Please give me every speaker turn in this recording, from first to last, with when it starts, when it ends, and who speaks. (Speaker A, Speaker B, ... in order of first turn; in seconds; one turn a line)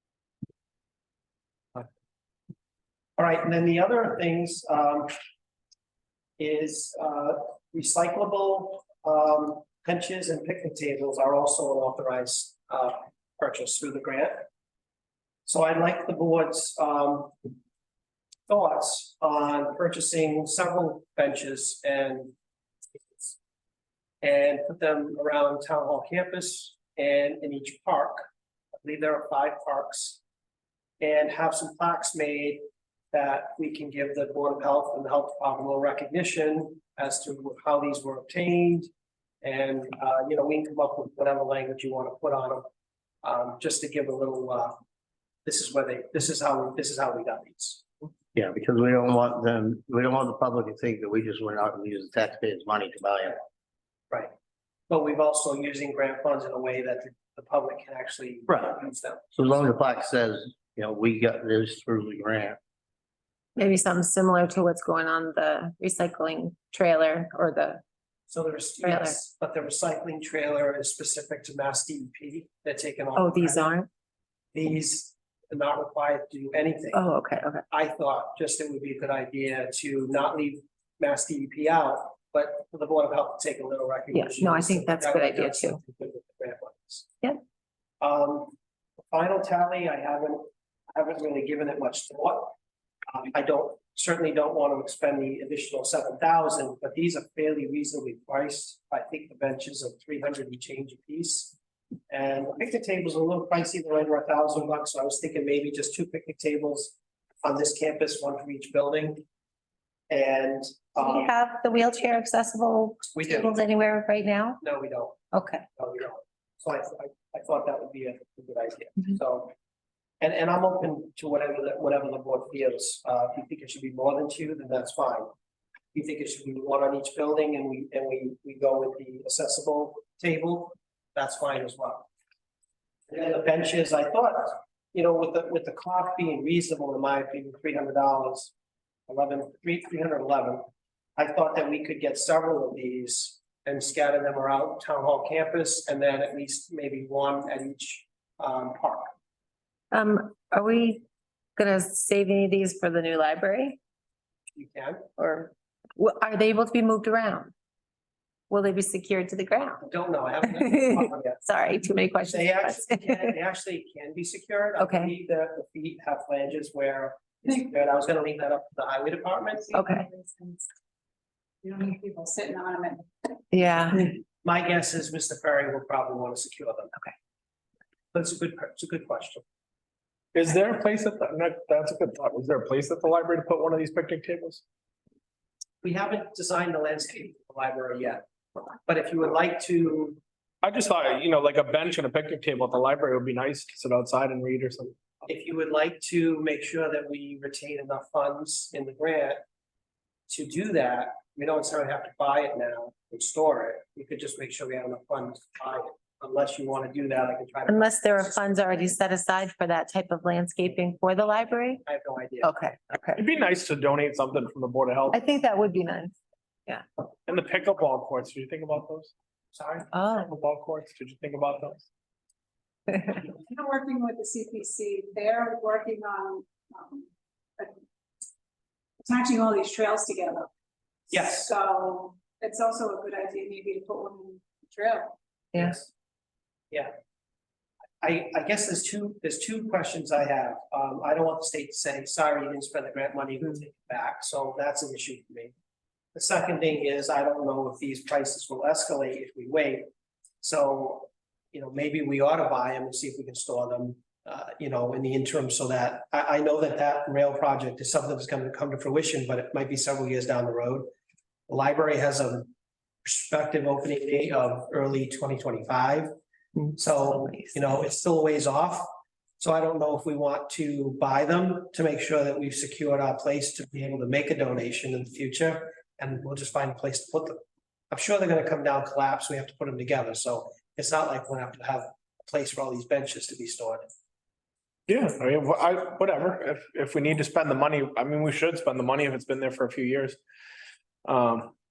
Speaker A: 3.2-5.1
Speaker A: 6.4-14.4
Speaker A: 15.4-17.4
Speaker A: 18.5-22.3
Speaker A: 23.0-23.4
Speaker A: 24.2-28.2
Speaker A: 28.8-30.2
Speaker A: 31.0-38.9
Speaker A: 39.4-42.7
Speaker A: 43.2-44.8
Speaker A: 45.4-47.9
Speaker B: 48.3-53.4
Speaker A: 54.9-59.2
Speaker B: 58.5-58.7
Speaker B: 59.3-62.6
Speaker C: 63.6-67.8
Speaker A: 68.3-73.7
Speaker C: 68.8-69.2
Speaker C: 73.2-73.9
Speaker A: 74.5-77.0
Speaker C: 76.9-77.6
Speaker A: 77.7-87.1
Speaker C: 84.1-85.8
Speaker A: 88.0-88.5
Speaker A: 89.1-92.5
Speaker A: 93.1-101.5
Speaker A: 102.1-109.2
Speaker A: 110.1-111.3
Speaker C: 111.0-114.6
Speaker A: 113.1-113.5
Speaker A: 114.6-115.2
Speaker C: 115.3-115.6
Speaker A: 115.8-119.5
Speaker A: 120.2-125.3
Speaker A: 125.9-132.1
Speaker A: 133.1-138.5
Speaker A: 139.1-140.6
Speaker A: 141.2-149.1
Speaker C: 149.9-151.0
Speaker C: 151.6-153.8
Speaker A: 154.5-155.1
Speaker C: 155.2-157.5
Speaker C: 158.5-159.8
Speaker A: 159.8-161.4
Speaker C: 160.5-163.3
Speaker A: 162.3-169.7
Speaker C: 164.8-165.1
Speaker C: 169.7-170.1
Speaker D: 169.7-170.6
Speaker D: 171.6-173.0
Speaker C: 173.5-174.1
Speaker A: 174.4-176.9
Speaker A: 178.1-179.4
Speaker E: 180.3-184.6
Speaker A: 185.8-188.2
Speaker A: 188.8-190.2
Speaker E: 190.6-195.0
Speaker A: 195.2-199.4
Speaker A: 200.3-208.8
Speaker C: 207.7-211.8
Speaker A: 211.8-212.6
Speaker C: 212.4-213.2
Speaker E: 213.2-215.2
Speaker C: 215.1-216.2
Speaker E: 217.3-219.1
Speaker A: 219.5-219.9
Speaker C: 219.9-220.3
Speaker E: 220.2-221.8
Speaker D: 223.2-227.1
Speaker D: 229.0-230.5
Speaker A: 231.1-231.5
Speaker D: 231.1-235.1
Speaker A: 235.5-235.9
Speaker A: 238.0-245.5
Speaker A: 246.1-249.9
Speaker A: 250.4-260.9
Speaker A: 261.5-262.5
Speaker A: 263.0-266.1
Speaker A: 266.7-268.9
Speaker A: 269.4-277.4
Speaker A: 277.9-283.9
Speaker E: 284.9-290.2
Speaker E: 291.0-291.5